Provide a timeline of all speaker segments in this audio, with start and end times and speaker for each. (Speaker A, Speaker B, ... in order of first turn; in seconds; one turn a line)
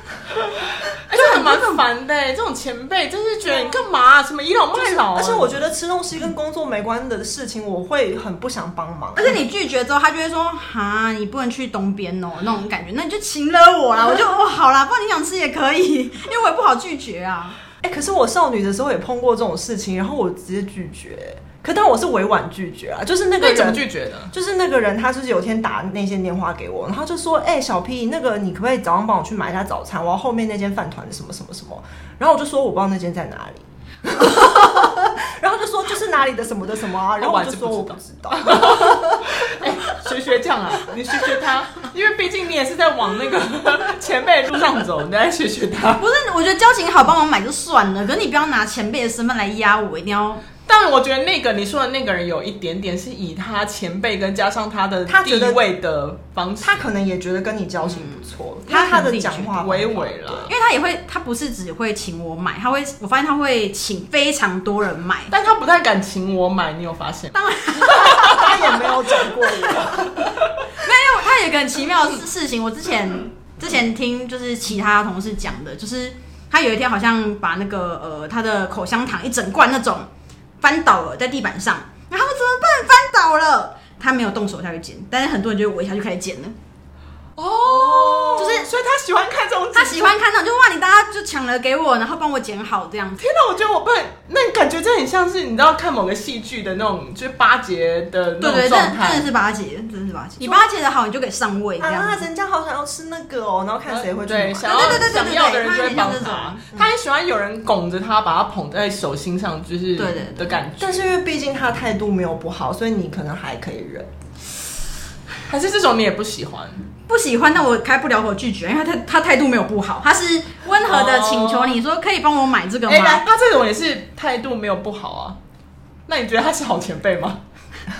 Speaker A: 0.9-5.6
Speaker B: 1.1-1.8
Speaker C: 4.7-9.4
Speaker B: 9.2-17.6
Speaker C: 17.8-39.5
Speaker A: 23.4-24.3
Speaker A: 37.2-46.0
Speaker B: 46.0-50.4
Speaker A: 50.6-56.9
Speaker C: 55.1-55.6
Speaker C: 56.6-60.5
Speaker B: 57.9-59.6
Speaker A: 59.4-60.5
Speaker B: 60.5-65.3
Speaker A: 65.3-68.5
Speaker B: 67.3-68.8
Speaker C: 68.0-70.3
Speaker B: 69.4-70.1
Speaker B: 70.8-80.1
Speaker B: 80.6-86.5
Speaker A: 87.4-90.2
Speaker C: 87.9-88.5
Speaker B: 88.4-88.7
Speaker B: 89.7-93.2
Speaker A: 93.2-99.3
Speaker B: 98.4-102.2
Speaker C: 101.8-105.1
Speaker A: 103.9-111.1
Speaker B: 104.6-106.6
Speaker B: 110.0-110.5
Speaker C: 110.8-114.1
Speaker A: 115.5-116.8
Speaker B: 117.1-123.2
Speaker A: 120.8-121.8
Speaker A: 122.9-125.4
Speaker A: 126.1-127.4